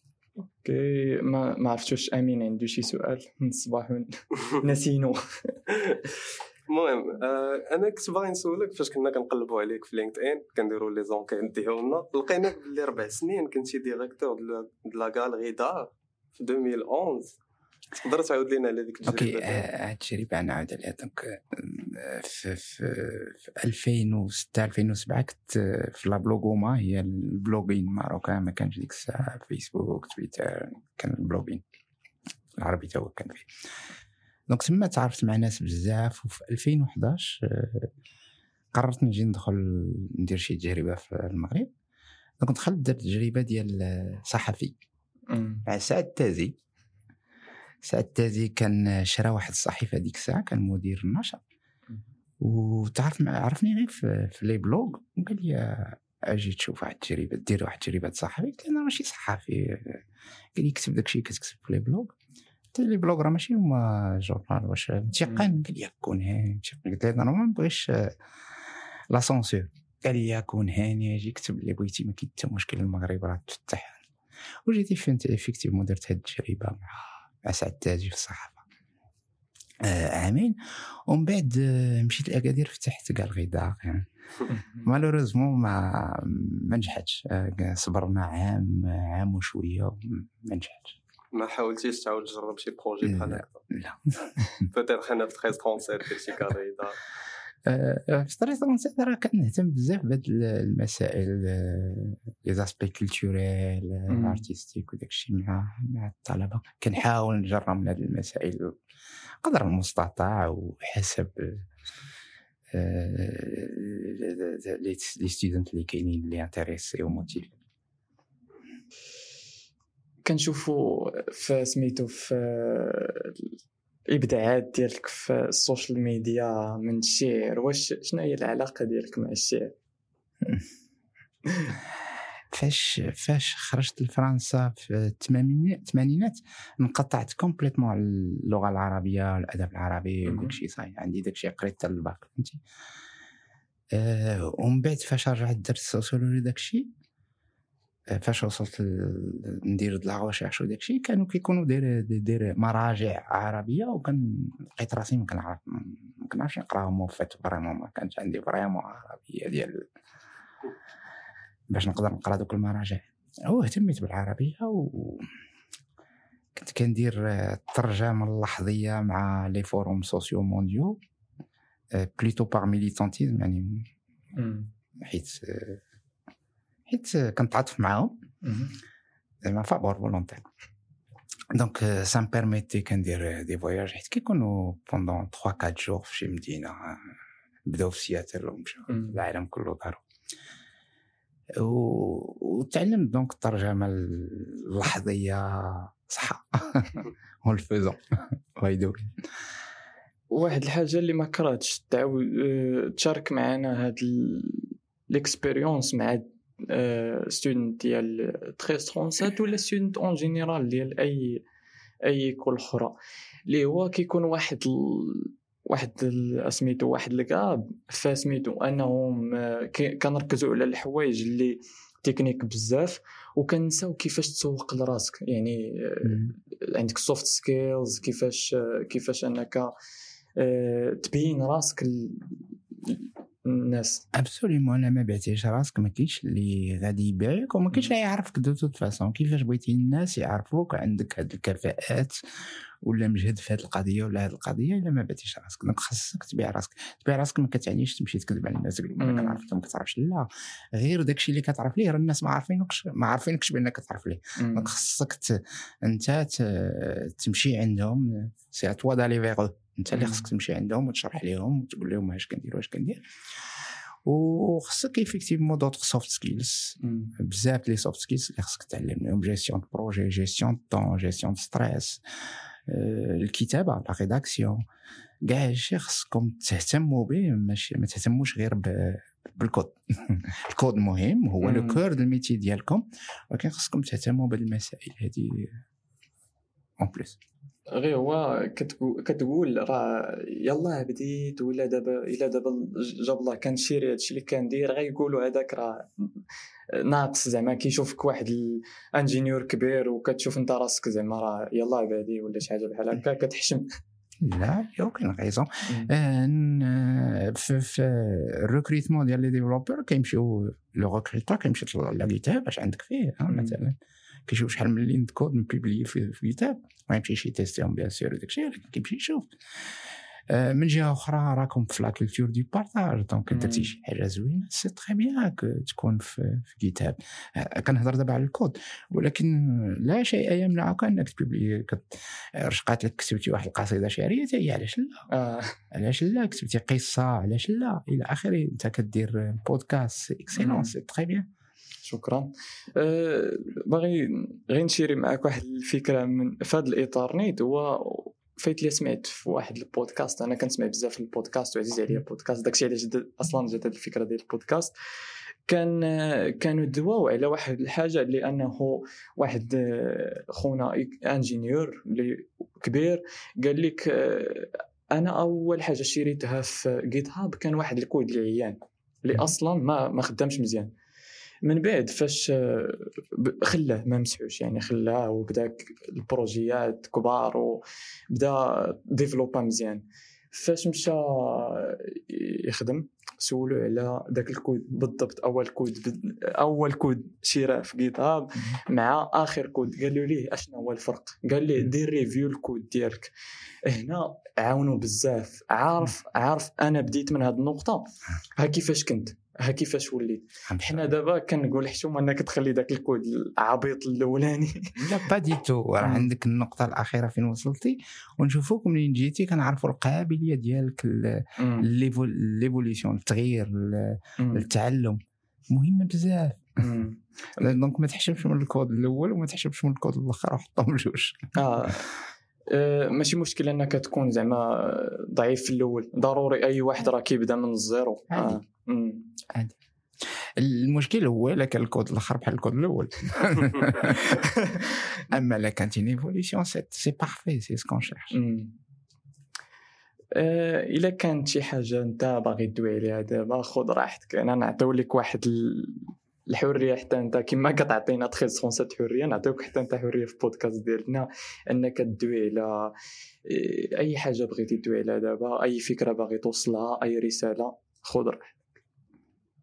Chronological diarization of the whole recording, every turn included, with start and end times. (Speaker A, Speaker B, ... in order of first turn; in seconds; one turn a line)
Speaker A: 0.6-5.6
Speaker B: 6.7-17.4
Speaker B: 17.9-19.6
Speaker C: 19.0-31.6
Speaker C: 32.6-33.5
Speaker C: 34.5-37.9
Speaker C: 38.7-41.7
Speaker C: 42.4-44.8
Speaker A: 45.3-45.6
Speaker C: 45.6-46.5
Speaker C: 47.8-51.4
Speaker C: 52.4-60.0
Speaker C: 60.5-62.1
Speaker C: 62.7-68.2
Speaker C: 69.1-74.0
Speaker C: 74.6-78.6
Speaker C: 79.8-84.1
Speaker A: 84.5-84.8
Speaker C: 84.8-91.0
Speaker B: 91.3-93.6
Speaker C: 93.0-94.7
Speaker B: 94.7-97.0
Speaker C: 97.7-108.8
Speaker A: 104.1-104.4
Speaker C: 109.4-111.7
Speaker C: 112.7-117.5
Speaker A: 120.2-123.5
Speaker A: 124.1-129.7
Speaker A: 131.5-131.7
Speaker C: 132.5-142.6
Speaker A: 140.2-140.6
Speaker C: 143.9-146.9
Speaker C: 148.1-159.9
Speaker C: 161.7-165.3
Speaker C: 166.5-171.0
Speaker C: 171.9-173.9
Speaker A: 174.3-174.7
Speaker C: 175.0-175.8
Speaker C: 176.9-178.2
Speaker A: 178.4-178.8
Speaker C: 179.4-180.5
Speaker C: 181.5-187.1
Speaker C: 187.6-190.0
Speaker A: 188.9-189.2
Speaker C: 191.5-199.1
Speaker A: 200.3-211.4
Speaker A: 212.1-212.9
Speaker A: 213.5-229.7
Speaker C: 226.0-226.3
Speaker A: 230.3-234.0
Speaker C: 234.1-242.2
Speaker C: 242.8-263.0
Speaker A: 249.0-249.4
Speaker A: 254.4-254.7
Speaker A: 259.9-260.2
Speaker C: 264.0-272.0
Speaker A: 266.8-267.1
Speaker C: 272.6-274.6
Speaker C: 275.2-285.6
Speaker A: 281.4-281.8
Speaker C: 286.8-287.2
Speaker A: 287.7-303.7
Speaker C: 304.2-335.1
Speaker A: 313.3-313.6
Speaker A: 323.3-323.7
Speaker A: 335.1-335.6
Speaker C: 335.7-341.3
Speaker A: 340.4-340.7
Speaker A: 341.8-354.7
Speaker A: 355.5-370.7
Speaker A: 371.4-393.1
Speaker A: 393.6-404.8
Speaker C: 400.5-400.9
Speaker C: 404.8-416.6
Speaker A: 405.8-406.1
Speaker A: 411.4-411.7
Speaker A: 414.2-414.5
Speaker A: 416.6-417.0
Speaker C: 417.4-421.9
Speaker A: 421.3-421.9
Speaker A: 422.5-429.1
Speaker C: 428.1-428.4
Speaker C: 430.4-438.1
Speaker A: 434.2-434.7
Speaker A: 438.1-438.5
Speaker A: 440.1-452.7
Speaker A: 453.2-458.4